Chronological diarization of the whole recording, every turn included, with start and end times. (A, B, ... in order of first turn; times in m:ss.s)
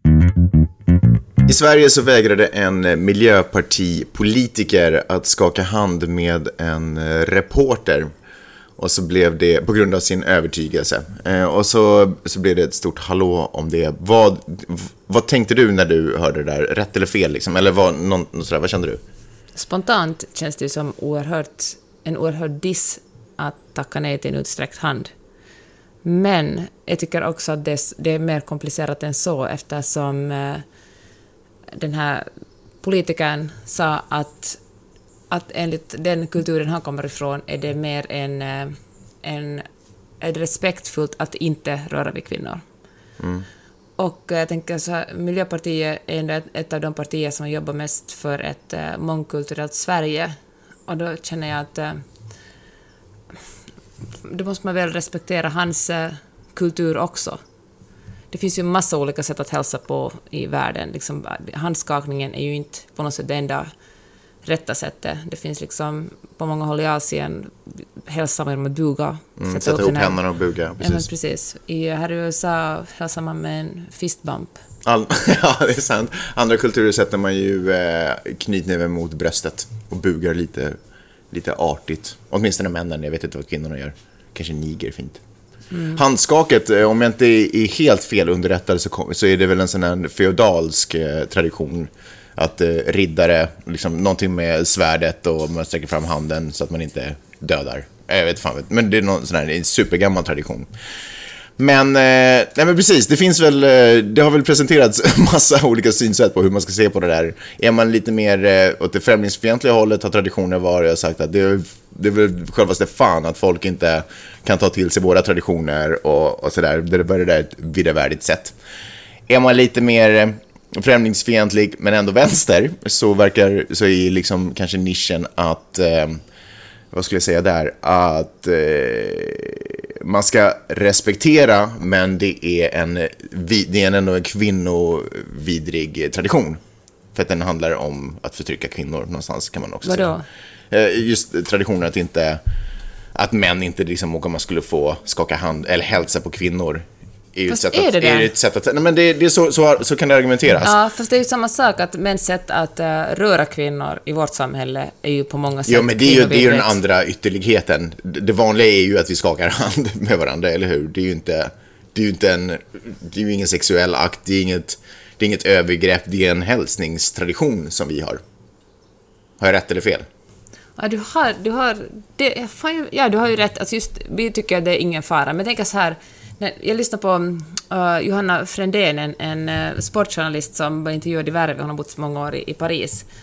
0:01.5-0:08.1 A
0:08.8-0:19.0 A
0:19.6-0:25.1 B
0:26.0-0:30.6 B
0:31.7-0:32.3 B
0:32.8-0:34.6 B
0:35.3-0:39.7 B
0:40.2-0:42.6 B
0:43.2-0:43.4 A
0:44.0-0:50.3 B
0:50.9-0:52.0 B
0:54.2-0:57.4 B
0:58.3-1:03.7 B
1:04.4-1:10.2 B
1:09.4-1:11.1 A
1:10.8-1:14.6 B
1:14.8-1:20.8 A
1:21.3-1:25.2 A
1:25.7-1:26.0 B
1:25.9-1:40.7 A
1:41.6-1:58.5 A
1:59.3-2:06.2 A
2:06.9-2:16.6 A
2:17.1-2:20.1 A
2:19.8-2:20.2 B
2:20.7-2:22.4 A
2:23.1-2:30.7 A
2:27.5-2:28.3 B
2:30.6-2:36.8 B
2:35.7-2:48.2 A
2:49.4-2:50.0 A
2:50.8-3:03.0 B